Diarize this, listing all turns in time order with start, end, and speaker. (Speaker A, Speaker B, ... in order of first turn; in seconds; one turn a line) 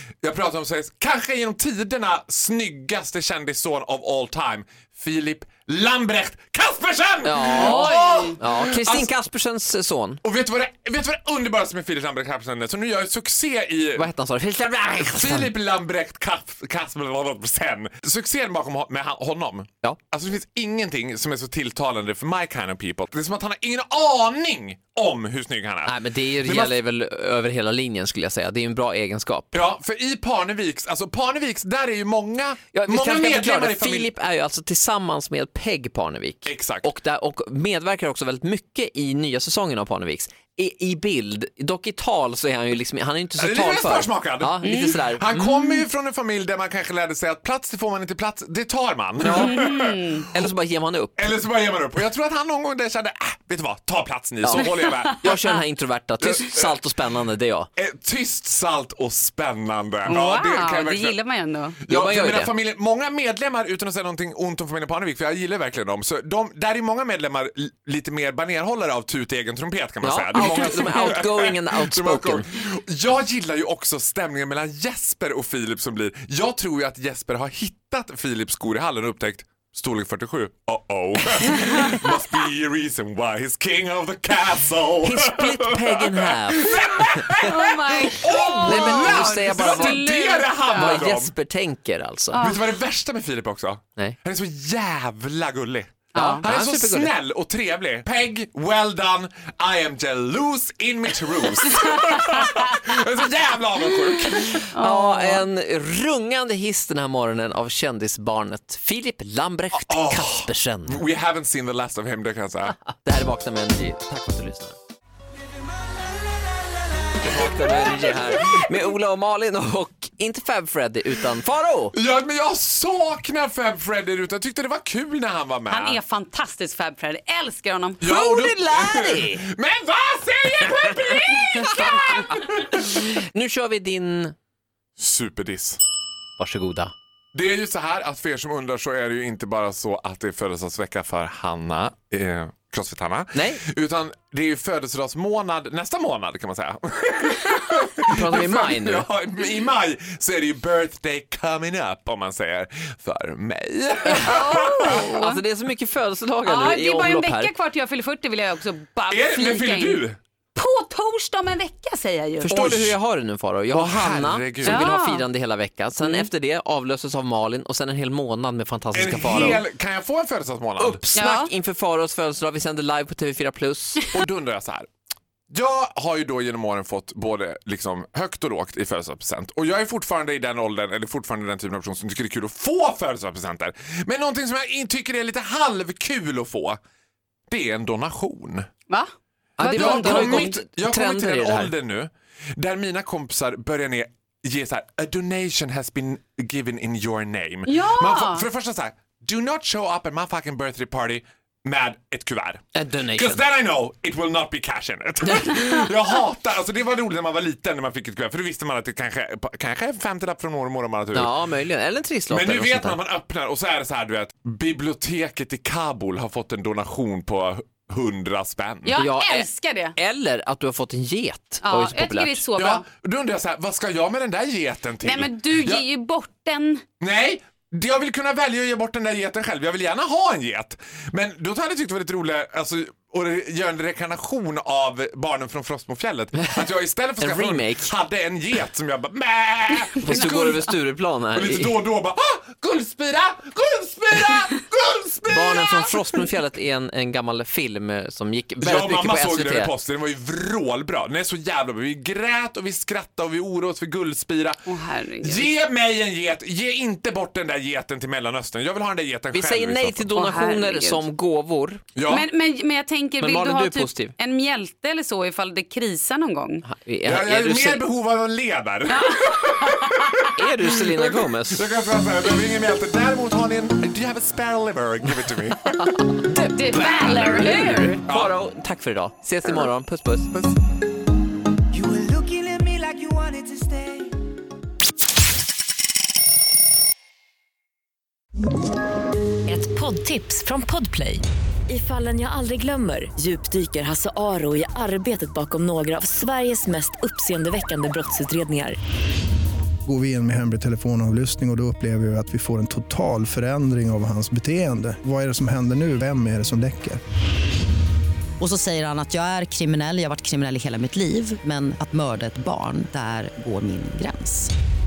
Speaker A: 0.2-9.1
Speaker B: 7.2-10.2
Speaker C: 7.5-8.4
Speaker A: 10.2-14.1
Speaker B: 14.0-15.5
Speaker A: 14.8-26.8
Speaker B: 25.9-29.6
Speaker A: 29.5-34.1
Speaker B: 32.7-45.7
Speaker A: 36.5-36.9
Speaker A: 43.4-50.5
Speaker C: 44.6-45.0
Speaker B: 49.2-49.6
Speaker C: 49.4-50.2
Speaker B: 50.3-51.3
Speaker A: 51.2-55.4
Speaker B: 54.4-57.7
Speaker A: 56.2-56.8
Speaker A: 57.8-61.2
Speaker C: 60.0-61.8
Speaker A: 61.9-91.3
Speaker B: 61.9-62.5
Speaker B: 70.0-72.5
Speaker B: 85.0-87.3
Speaker C: 87.5-91.1
Speaker B: 88.6-90.0
Speaker B: 90.7-92.4
Speaker C: 92.3-92.7
Speaker A: 92.4-104.7
Speaker C: 96.1-96.5
Speaker B: 96.2-97.1
Speaker C: 104.5-105.5
Speaker B: 104.8-111.0
Speaker A: 109.7-112.8
Speaker B: 112.9-114.8
Speaker B: 117.2-122.0
Speaker A: 121.9-126.0
Speaker C: 125.7-128.0
Speaker A: 128.0-133.0
Speaker B: 128.0-129.4
Speaker B: 131.6-132.2
Speaker B: 132.8-134.3
Speaker A: 135.0-135.8
Speaker B: 136.4-136.9
Speaker A: 137.3-155.1
Speaker B: 143.3-143.6
Speaker B: 148.1-149.1
Speaker C: 154.1-155.4
Speaker B: 154.8-157.5
Speaker C: 156.4-160.0
Speaker A: 159.1-160.2
Speaker C: 160.6-162.6
Speaker B: 162.4-169.6
Speaker A: 162.5-163.0
Speaker A: 163.7-164.9
Speaker C: 164.6-165.3
Speaker C: 166.0-166.3
Speaker A: 168.9-171.0
Speaker B: 170.8-174.1
Speaker C: 171.2-171.5
Speaker A: 174.1-174.9
Speaker A: 175.5-186.8
Speaker A: 187.5-188.7
Speaker B: 189.6-191.7
Speaker C: 189.6-190.6
Speaker A: 189.7-211.4
Speaker C: 197.7-198.4
Speaker B: 202.8-203.4
Speaker B: 211.1-213.0
Speaker A: 212.3-219.0
Speaker C: 218.9-219.9
Speaker B: 218.9-222.4
Speaker C: 221.6-222.9
Speaker A: 222.6-225.8
Speaker C: 225.0-226.8
Speaker A: 227.0-240.6
Speaker B: 237.2-237.9
Speaker B: 240.0-241.8
Speaker C: 240.1-240.8
Speaker A: 241.3-246.2
Speaker B: 245.3-249.7
Speaker A: 248.6-254.6
Speaker C: 254.7-255.6
Speaker A: 255.2-260.1
Speaker B: 259.3-261.9
Speaker C: 260.1-261.1
Speaker A: 261.9-262.3
Speaker C: 262.1-266.6
Speaker B: 263.2-264.1
Speaker B: 266.7-267.8
Speaker A: 267.0-275.9
Speaker C: 268.9-270.2
Speaker B: 270.4-271.6
Speaker B: 275.8-280.3
Speaker C: 276.4-278.0
Speaker A: 278.1-278.4
Speaker D: 281.8-284.0
Speaker E: 289.5-298.8
Speaker F: 299.9-307.0
Speaker G: 308.4-314.5